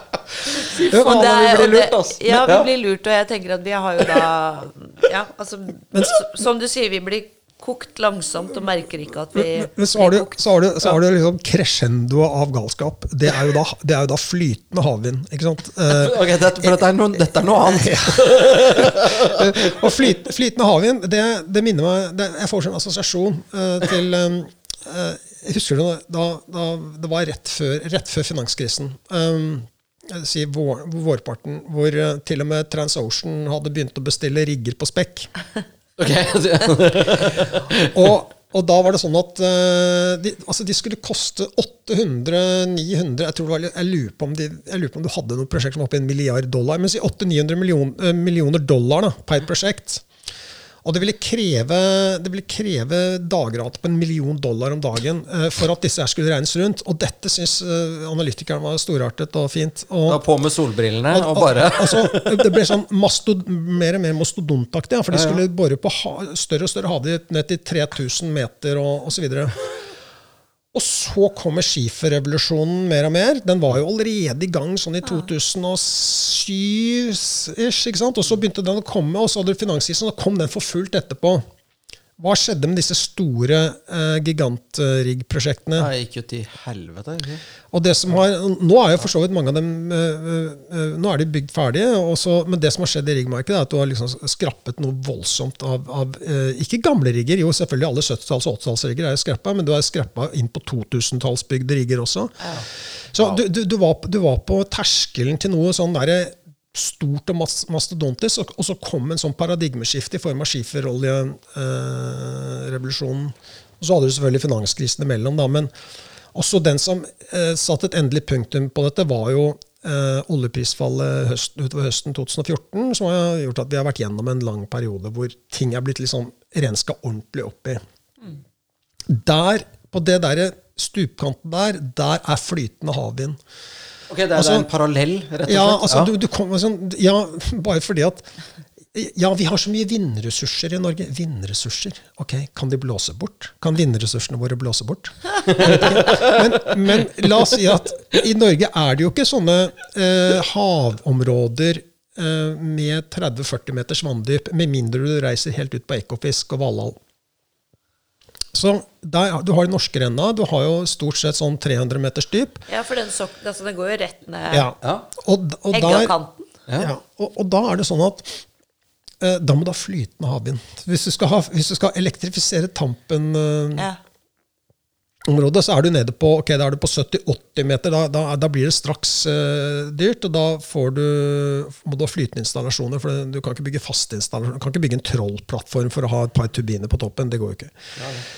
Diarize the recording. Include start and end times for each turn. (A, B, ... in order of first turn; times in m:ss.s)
0:00.6-0:10.4 A
0:00.6-0:02.7 B
0:00.9-0:02.0 C
0:05.9-0:06.2 C
0:09.3-0:16.8 C
0:15.9-0:19.9 B
0:17.4-0:35.3 C
0:36.0-0:37.9 B
0:37.5-0:50.0 C
0:50.8-1:00.2 C
1:00.1-1:02.5 B
1:01.1-1:09.6 C
1:05.1-1:05.4 B
1:10.7-1:21.4 C
1:22.2-1:25.9 C
1:25.8-1:27.4 B
1:27.7-1:42.5 C
1:43.1-1:55.7 C
1:56.3-2:07.8 C
2:09.1-2:13.4 C
2:14.1-2:16.1 B
2:14.3-2:14.7 C
2:15.5-2:18.3 C
2:18.9-2:37.0 C
2:25.4-2:26.7 B
2:38.5-2:42.6 C
2:42.7-2:44.7 A
2:44.5-2:46.1 C
2:44.8-2:45.1 B
2:45.7-2:46.4 A
2:46.7-2:46.9 B
2:46.8-2:48.4 C
2:49.2-2:53.9 C
2:55.3-3:07.7 C
3:08.0-3:08.2 B